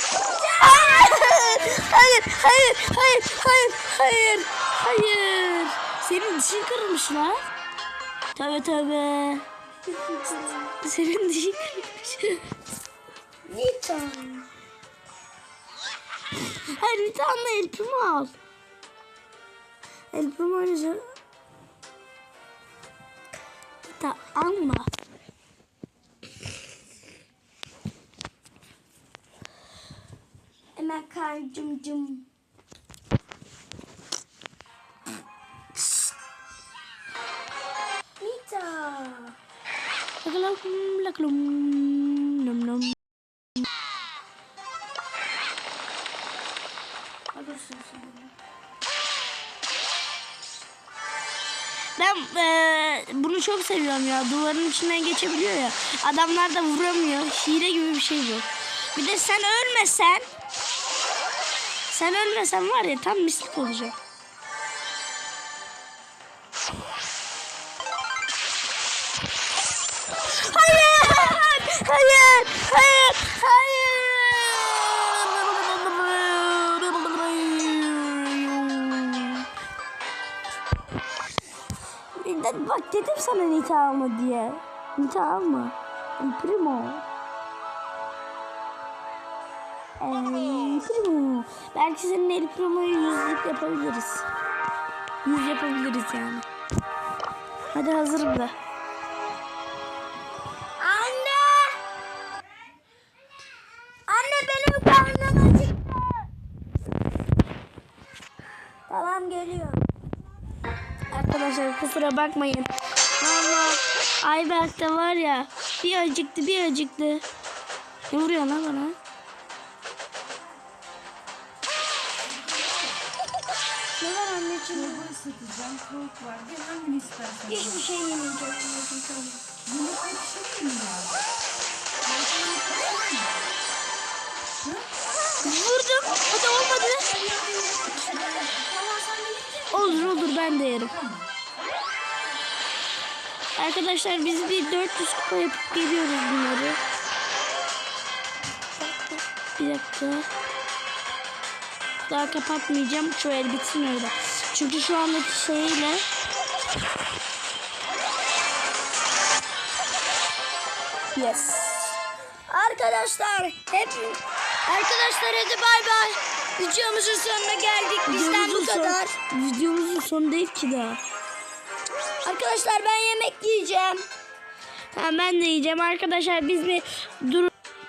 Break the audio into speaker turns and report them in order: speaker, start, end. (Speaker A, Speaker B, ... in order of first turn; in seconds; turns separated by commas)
Speaker A: 0.2-1.8, Speaker B: 0.6-7.4, Speaker B: 8.3-9.4, Speaker A: 9.8-10.7, Speaker B: 10.8-12.4, Speaker A: 13.5-14.5, Speaker B: 16.4-18.3, Speaker B: 20.1-21.0, Speaker B: 23.9-24.9, Speaker A: 30.8-32.3, Speaker A: 38.2-39.4, Speaker B: 40.2-43.0, Speaker A: 47.3-48.3, Speaker B: 52.0-60.3, Speaker B: 61.9-63.9, Speaker B: 70.3-79.5, Speaker B: 82.2-87.0, Speaker B: 90.0-94.2, Speaker B: 95.2-96.5, Speaker B: 97.7-98.5, Speaker A: 100.8-101.8, Speaker A: 104.1-106.3, Speaker A: 108.9-109.8, Speaker B: 111.1-117.2, Speaker B: 118.1-119.0, Speaker B: 124.0-124.6, Speaker A: 124.5-125.2, Speaker C: 125.2-127.5, Speaker A: 127.4-129.4, Speaker C: 129.7-131.2, Speaker C: 132.1-133.4, Speaker B: 135.4-137.0, Speaker A: 137.0-138.6, Speaker C: 137.3-139.7, Speaker B: 139.7-141.0, Speaker B: 143.6-146.8, Speaker A: 148.8-149.2, Speaker B: 149.6-150.3, Speaker B: 152.1-156.0, Speaker B: 161.1-161.7, Speaker A: 162.5-169.1, Speaker B: 168.1-171.0, Speaker A: 172.2-174.0, Speaker B: 174.9-177.5